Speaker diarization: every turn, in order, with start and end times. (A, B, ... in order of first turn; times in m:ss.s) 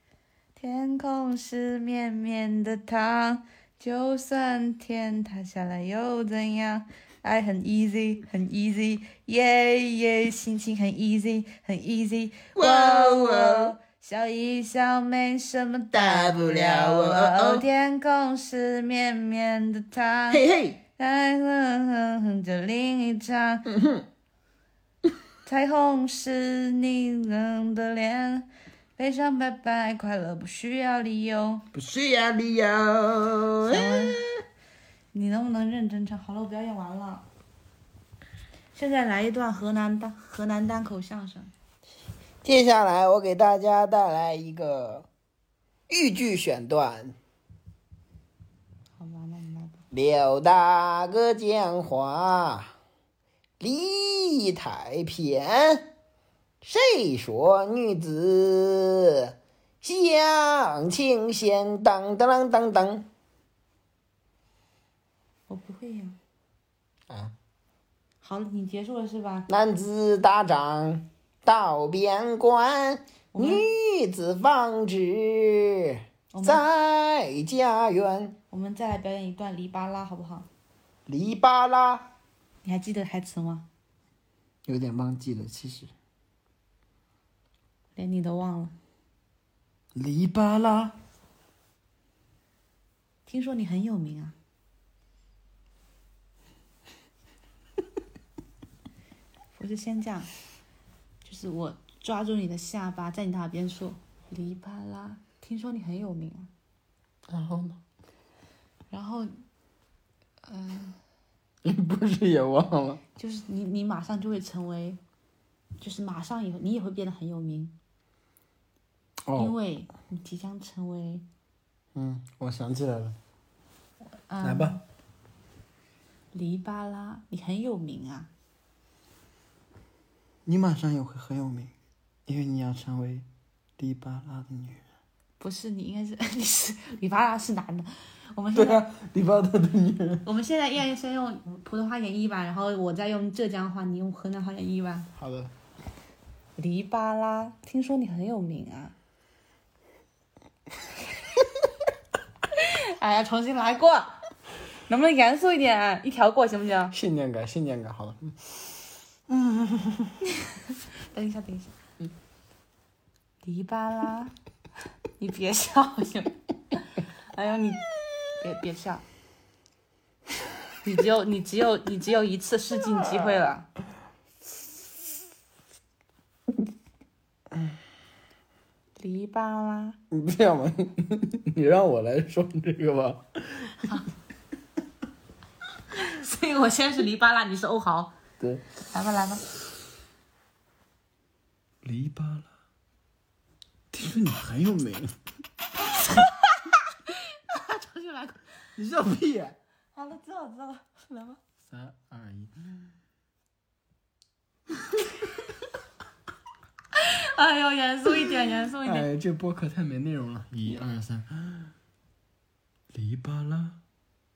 0:00.6-0:20.4 A
0:12.6-0:13.8 B
0:15.9-0:17.6 B
0:20.3-0:20.8 B
0:21.0-0:23.7 A
0:23.7-0:24.0 B
0:25.4-0:31.6 A
0:31.7-0:34.4 B
0:33.6-0:34.3 A
0:35.1-0:37.3 A
0:38.7-0:41.5 A
0:42.4-0:45.1 B
0:45.9-0:47.2 B
0:49.0-0:49.8 A
0:49.9-0:52.7 B
0:53.6-0:55.9 B
0:56.6-1:03.1 B
1:05.5-1:06.2 A
1:07.1-1:07.3 B
1:08.2-1:09.5 A
1:09.5-1:18.4 B
1:13.3-1:13.6 A
1:16.3-1:16.6 A
1:18.5-1:20.5 A
1:21.1-1:22.1 B
1:22.6-1:23.6 A
1:24.6-1:25.9 B
1:28.0-1:28.7 A
1:29.9-1:31.0 B
1:33.2-1:34.3 A
1:39.5-1:40.3 A
1:41.2-1:46.5 A
1:47.3-1:47.8 B
1:48.9-1:49.3 A
1:50.4-1:51.0 A
1:51.6-1:53.0 B
1:53.2-1:55.0 A
1:55.8-1:57.7 A
1:59.2-1:59.5 B
1:59.3-2:01.2 A
2:01.9-2:03.2 B
2:04.3-2:04.8 A
2:04.4-2:04.8 B
2:06.3-2:08.3 A
2:10.4-2:11.7 B
2:12.3-2:13.2 B
2:13.8-2:14.8 B
2:15.4-2:18.8 A
2:18.5-2:20.2 B
2:20.2-2:25.1 A
2:25.2-2:25.5 B
2:26.6-2:28.9 A
2:32.5-2:34.2 A
2:34.9-2:36.9 A
2:36.9-2:38.6 B
2:39.3-2:40.2 B
2:40.4-2:41.7 A
2:43.4-2:44.3 A
2:45.2-2:49.0 A
2:50.8-2:53.7 A
2:59.0-3:00.0 A
3:00.1-3:03.9 B
3:05.9-3:08.1 A
3:08.4-3:08.6 B
3:08.9-3:09.4 A
3:11.8-3:12.5 B
3:13.9-3:15.1 B
3:16.1-3:18.5 A
3:18.8-3:19.6 B
3:19.9-3:21.4 A
3:21.7-3:22.8 B
3:26.9-3:29.1 A
3:28.8-3:31.7 B
3:32.9-3:33.8 B